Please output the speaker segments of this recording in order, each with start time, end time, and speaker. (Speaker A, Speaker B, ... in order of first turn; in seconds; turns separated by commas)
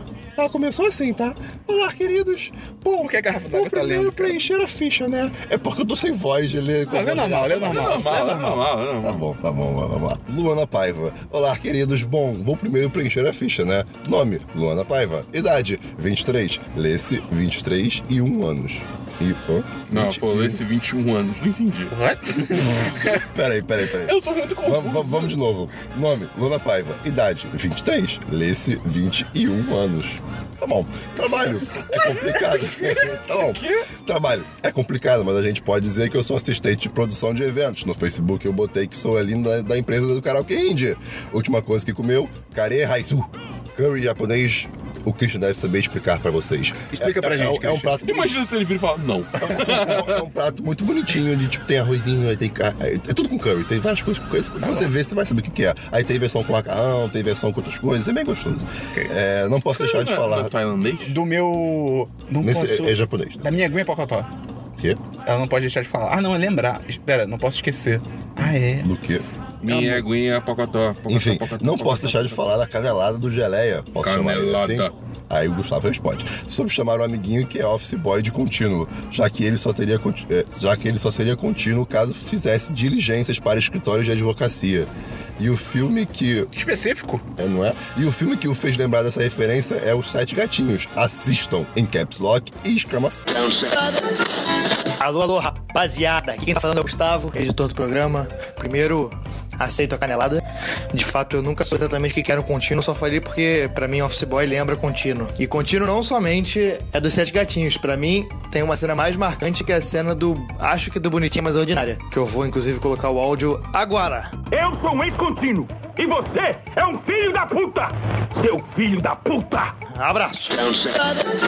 Speaker A: 0.3-20.6, Speaker B: 3.0-4.5, Speaker B: 6.9-8.7, Speaker C: 7.6-9.3, Speaker C: 19.9-21.9, Speaker B: 21.9-23.0, Speaker A: 22.6-48.4, Speaker C: 24.0-25.4, Speaker B: 31.7-32.3, Speaker C: 31.9-33.8, Speaker B: 46.9-48.0, Speaker C: 48.0-50.2, Speaker A: 49.4-60.5, Speaker B: 54.6-54.9, Speaker C: 59.7-61.1, Speaker B: 61.0-64.3, Speaker A: 62.4-63.6, Speaker B: 65.2-68.9, Speaker A: 68.8-69.2, Speaker C: 69.6-72.6, Speaker B: 69.7-70.0, Speaker A: 71.1-86.5, Speaker C: 74.0-74.9, Speaker B: 86.5-87.2, Speaker A: 87.4-93.5, Speaker D: 95.0-114.4, Speaker E: 114.5-119.7, Speaker D: 119.9-121.1